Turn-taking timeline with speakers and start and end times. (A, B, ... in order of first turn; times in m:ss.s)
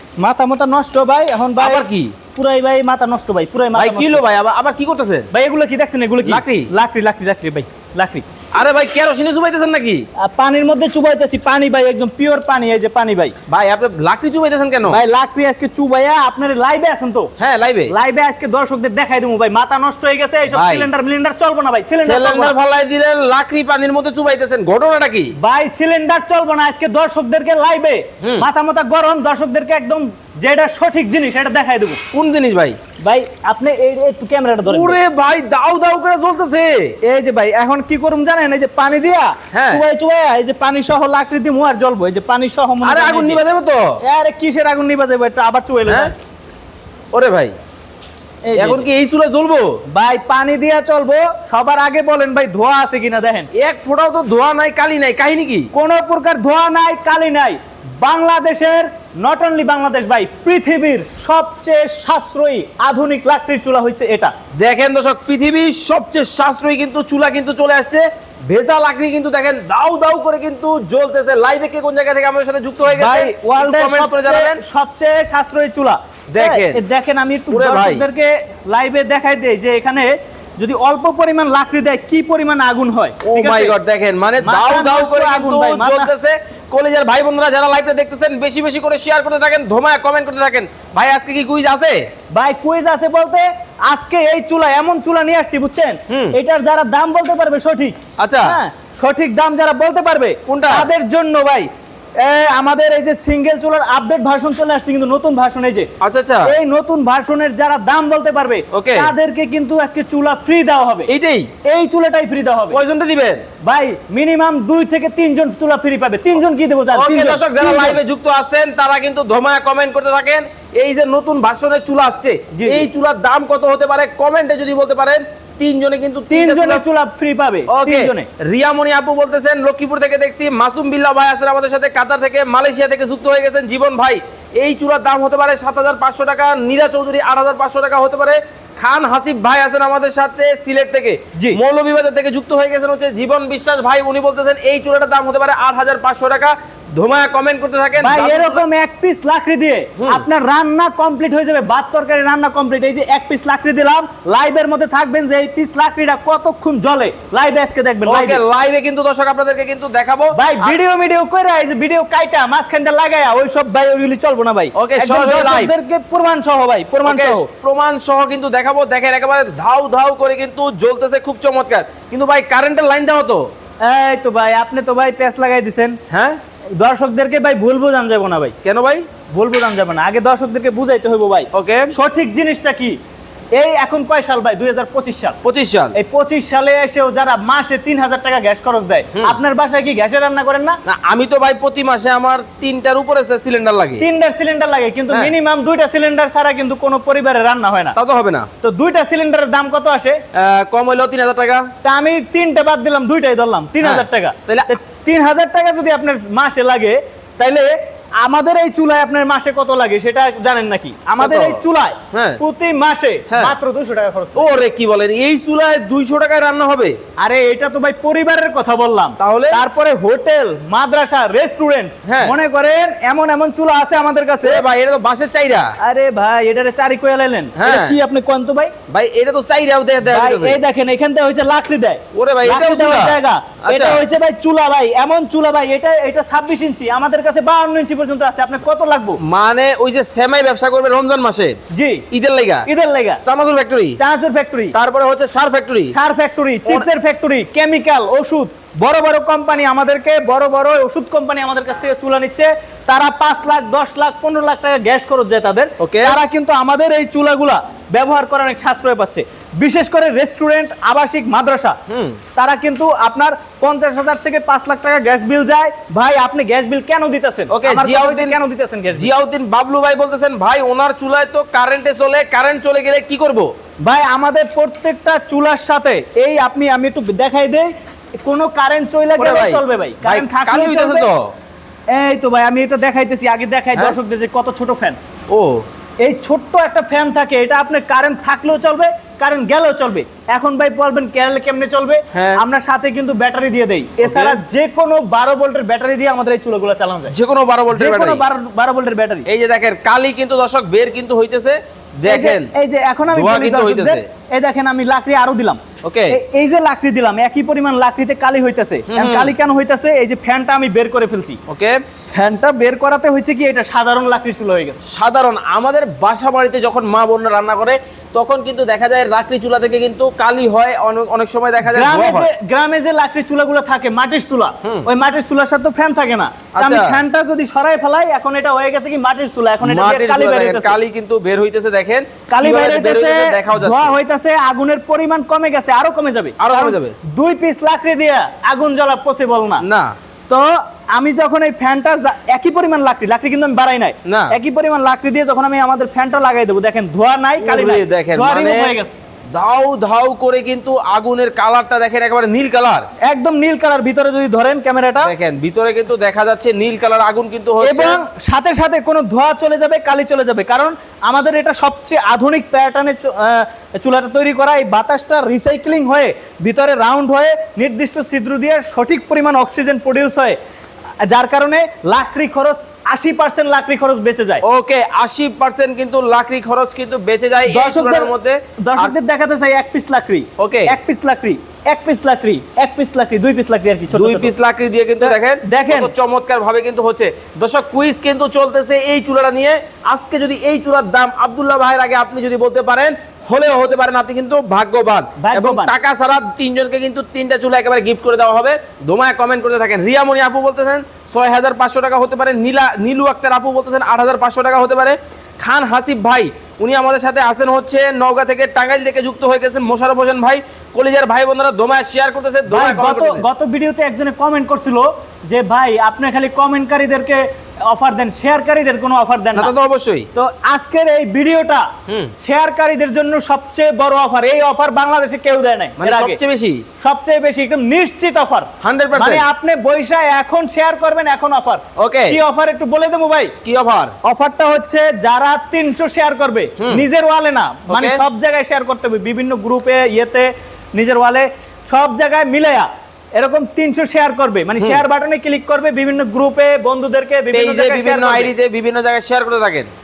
0:00.2-0:01.8 A
0:01.6-0:02.1 B
0:02.3-0:04.2 A
0:03.7-0:05.3 B
0:05.3-0:08.2 A
0:06.2-0:06.7 B
0:08.5-0:10.0 B
0:10.2-0:13.3 A
0:13.5-0:15.0 B
0:14.8-0:17.3 A
0:17.4-0:17.9 B
0:17.9-0:22.5 A
0:20.5-0:20.9 B
0:22.0-0:25.3 B
0:25.4-0:32.0 A
0:32.1-0:32.8 B
0:33.0-0:35.0 A
0:34.6-0:37.0 B
0:37.0-0:43.4 A
0:39.5-0:39.8 B
0:42.8-0:43.9 B
0:44.0-0:46.1 A
0:47.1-0:47.5 B
0:48.4-0:48.8 A
0:48.5-0:49.8 B
0:49.9-0:53.5 A
0:53.5-0:55.7 B
0:55.7-1:04.3 A
1:04.6-1:14.6 B
1:12.9-1:23.7 A
1:16.3-1:16.8 B
1:17.5-1:18.0 B
1:23.2-1:32.0 B
1:24.4-1:26.1 A
1:32.3-1:41.7 A
1:36.1-1:36.3 B
1:38.2-1:38.6 B
1:40.5-1:40.9 B
1:42.2-1:45.9 A
1:46.0-1:46.5 B
1:46.4-1:51.1 A
1:48.7-1:49.1 B
1:51.1-1:51.5 B
1:51.6-1:52.8 A
1:52.7-1:53.4 B
1:53.6-1:58.0 A
1:56.9-2:06.8 B
2:02.5-2:02.9 A
2:06.3-2:08.3 A
2:07.7-2:28.6 B
2:28.0-2:38.4 A
2:30.0-2:30.2 B
2:38.0-2:40.8 B
2:40.3-2:47.5 A
2:44.8-2:45.7 B
2:47.0-2:53.4 B
2:53.8-2:56.0 A
2:56.1-2:56.4 B
2:56.8-2:58.5 A
2:58.6-2:59.0 B
2:59.3-3:03.0 A
3:01.5-3:01.9 B
3:03.6-3:05.4 A
3:05.4-3:06.0 B
3:05.9-3:10.8 A
3:10.8-3:14.0 B
3:14.0-3:17.9 A
3:17.9-3:18.5 B
3:18.6-3:20.2 A
3:20.3-3:21.7 B
3:21.8-3:34.6 A
3:23.8-3:24.7 B
3:31.2-3:31.6 B
3:32.1-3:32.4 B
3:33.3-3:33.5 B
3:34.3-3:37.0 B
3:37.2-3:44.6 A
3:39.2-3:39.6 B
3:42.0-3:42.3 B
3:44.4-3:45.7 B
3:45.8-3:48.7 A
3:47.6-3:48.0 B
3:48.9-3:50.6 B
3:50.1-3:59.2 A
3:52.1-3:54.0 B
3:59.2-4:01.6 B
4:01.7-4:02.0 A
4:02.1-4:02.6 B
4:02.7-4:03.2 A
4:03.2-4:04.0 B
4:04.0-4:04.7 A
4:04.7-4:05.9 B
4:05.9-4:21.8 A
4:15.8-4:16.2 B
4:21.9-4:22.2 B
4:22.3-4:29.1 A
4:27.5-4:28.4 B
4:28.9-4:33.5 B
4:33.8-4:37.7 A
4:38.2-4:41.1 A
4:39.2-4:41.2 B
4:41.9-4:45.0 A
4:45.3-4:45.6 B
4:46.0-4:57.1 A
4:52.1-4:52.4 B
4:54.0-4:54.4 B
4:57.1-4:58.2 B
4:57.7-4:59.2 A
4:59.2-5:02.5 B
5:02.0-5:11.4 A
5:03.1-5:04.0 B
5:05.8-5:06.2 B
5:08.9-5:09.3 B
5:11.5-5:11.8 B
5:12.1-5:14.8 A
5:14.9-5:22.3 B
5:21.6-5:30.8 A
5:26.6-5:27.0 B
5:29.6-5:33.9 B
5:32.3-5:39.6 A
5:36.4-5:37.0 B
5:39.6-5:39.9 B
5:40.3-5:49.0 A
5:44.0-5:44.3 B
5:47.4-5:48.7 B
5:49.3-5:52.8 B
5:53.0-5:55.1 A
5:55.0-5:58.0 B
5:57.6-6:10.4 A
6:11.0-6:14.4 A
6:14.4-6:19.0 B
6:17.5-6:24.3 A
6:20.4-6:20.7 B
6:23.9-6:53.2 B
6:25.0-6:25.9 A
6:35.2-6:35.7 A
6:52.5-6:59.5 A
6:59.3-7:00.1 B
7:00.1-7:01.7 A
7:02.2-7:06.2 A
7:05.8-7:06.6 B
7:06.8-7:13.3 A
7:08.6-7:09.2 B
7:11.8-7:12.2 B
7:13.4-7:13.9 B
7:14.0-7:28.3 A
7:17.7-7:18.0 B
7:27.3-7:29.7 B